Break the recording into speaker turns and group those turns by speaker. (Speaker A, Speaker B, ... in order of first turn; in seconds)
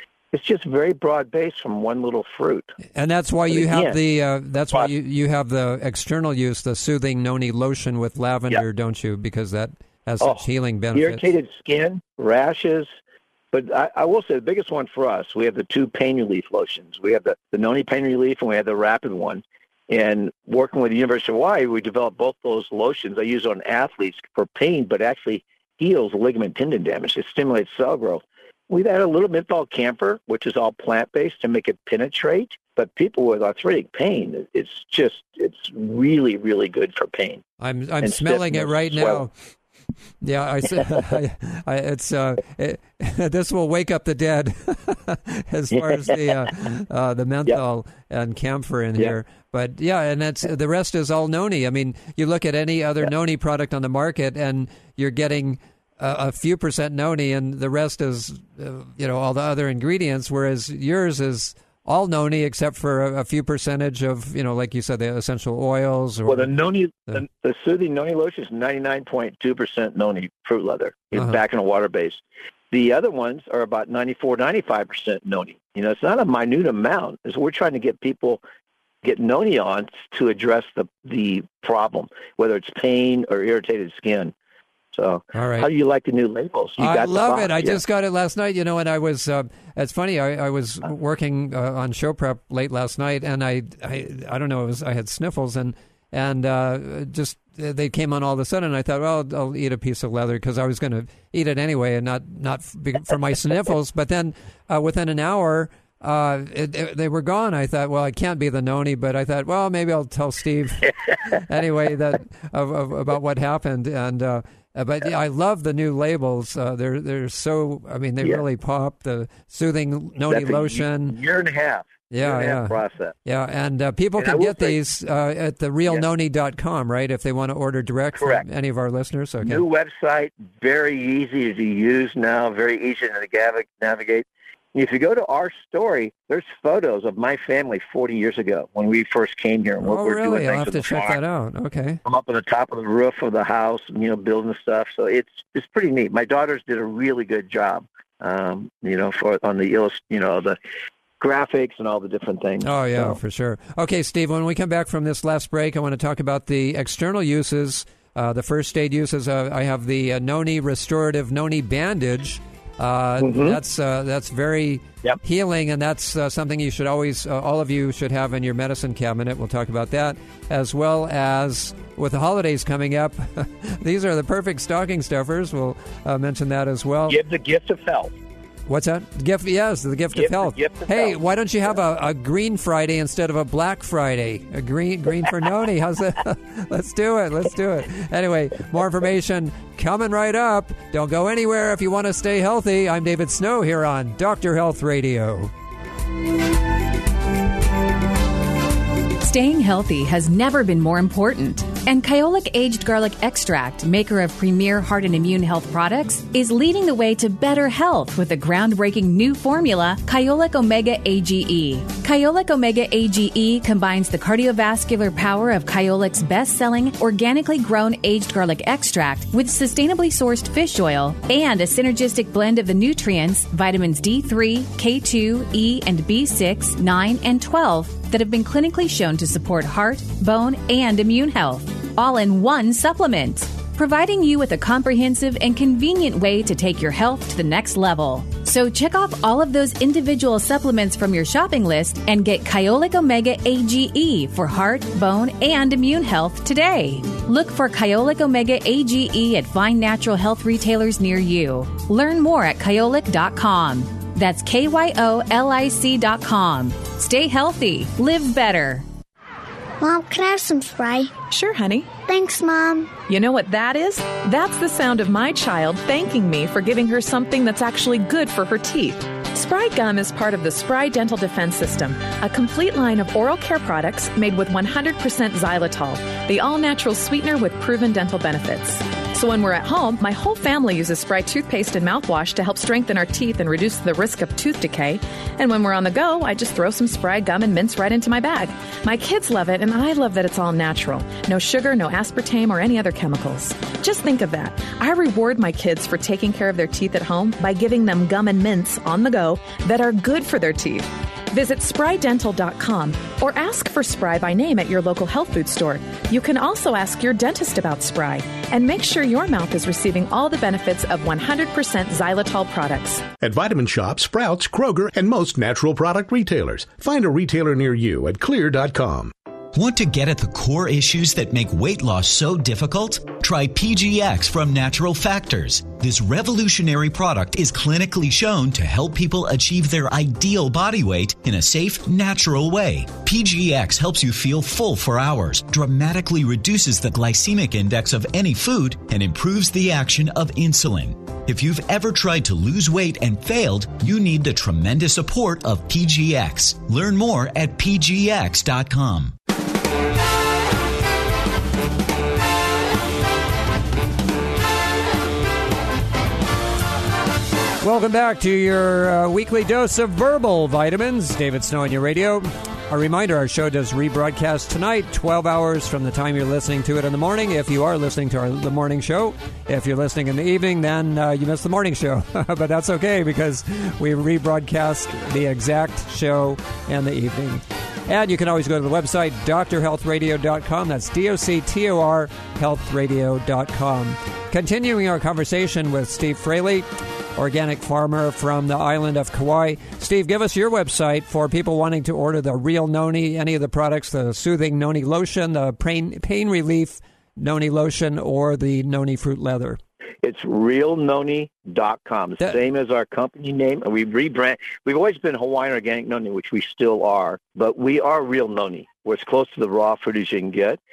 Speaker A: 0.3-2.8, 3.5-4.0, 10.2-12.9, 13.5-37.4, 38.0-39.2, 45.8-46.0, 66.3-78.4, 79.0-84.3, 84.9-87.8, 120.3-123.2, 124.2-124.8, 128.2-128.4, 129.4-141.2, 142.1-150.6, 151.2-153.2, 163.2-163.6, 177.1-178.1, 180.2-181.2, 400.0-410.6
Speaker B: 3.0-11.3, 37.6-39.3, 40.2-66.5, 71.1-71.4, 85.3-85.7, 86.8-121.2, 122.1-129.6, 139.8-142.0, 152.6-177.2, 178.7-195.5, 357.6-399.6
Speaker C: 199.2-258.9
Speaker D: 259.8-261.1, 262.0-262.9
Speaker E: 261.3-261.9, 263.1-313.1
Speaker F: 313.2-319.1
Speaker G: 319.5-349.1